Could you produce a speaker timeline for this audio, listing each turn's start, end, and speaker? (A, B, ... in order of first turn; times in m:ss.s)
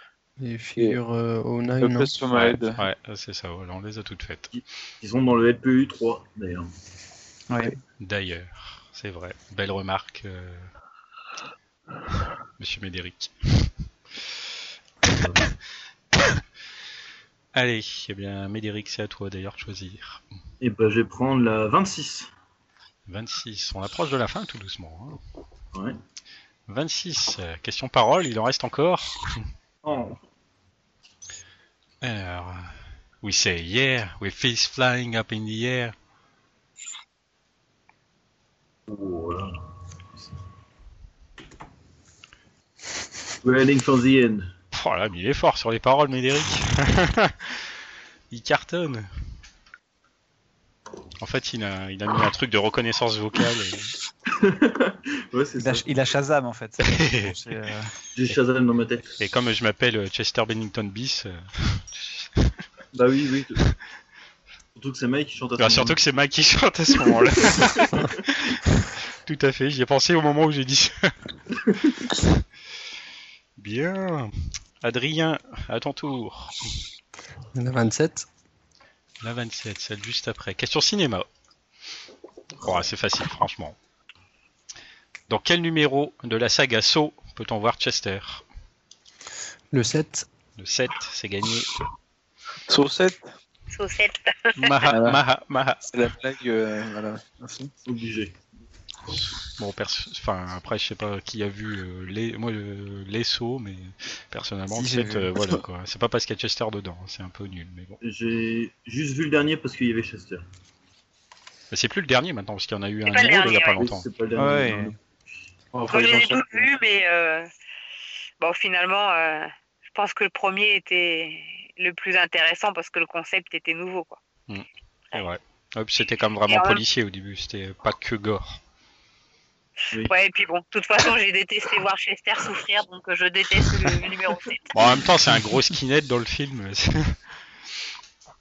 0:00.4-0:02.1 A
0:01.8-0:02.8 B
0:02.3-0:04.5 C
0:04.5-0:06.7 D
0:07.5-0:07.8 E
0:08.0-0:10.7 C
0:12.6-0:13.7 C
0:15.1-0:15.4 D
0:15.2-0:15.5 C
0:17.5-0:20.2 C
0:20.6-0:22.3 D
0:23.1-0:25.2 C
0:26.7-0:29.4 C
0:29.8-0:30.2 D
0:32.0-0:35.9 C
0:38.9-0:39.6 D
0:43.4-0:44.5 D
0:44.7-0:47.7 C
0:48.3-0:49.1 C
0:51.2-0:53.9 C
0:54.3-0:55.9 D
0:55.6-0:57.9 E
0:56.9-0:57.4 C
0:58.1-0:59.2 D
0:59.2-1:02.5 C
1:02.9-1:03.6 D
1:04.8-1:06.0 D
1:05.6-1:11.2 C
1:07.5-1:08.1 D
1:11.6-1:11.9 D
1:13.6-1:16.6 C
1:17.6-1:18.3 A
1:19.2-1:21.3 C
1:22.6-1:23.8 C
1:25.3-1:28.4 C
1:29.7-1:30.3 A
1:30.6-1:31.7 C
1:32.7-1:33.3 B
1:33.7-1:34.7 F
1:34.6-1:35.9 C
1:34.9-1:35.2 B
1:35.9-1:37.7 B
1:37.9-1:38.4 D
1:39.1-1:48.0 C
1:44.7-1:45.4 E
1:48.0-1:50.4 D
1:51.7-1:54.0 C
1:53.1-1:53.8 F
1:53.4-1:55.0 D
1:54.4-1:55.0 E
1:55.8-1:56.6 B
1:55.9-1:57.5 F
1:58.4-2:04.2 F
2:04.5-2:08.6 C
2:06.5-2:06.8 F
2:10.0-2:14.8 F
2:14.7-2:17.2 C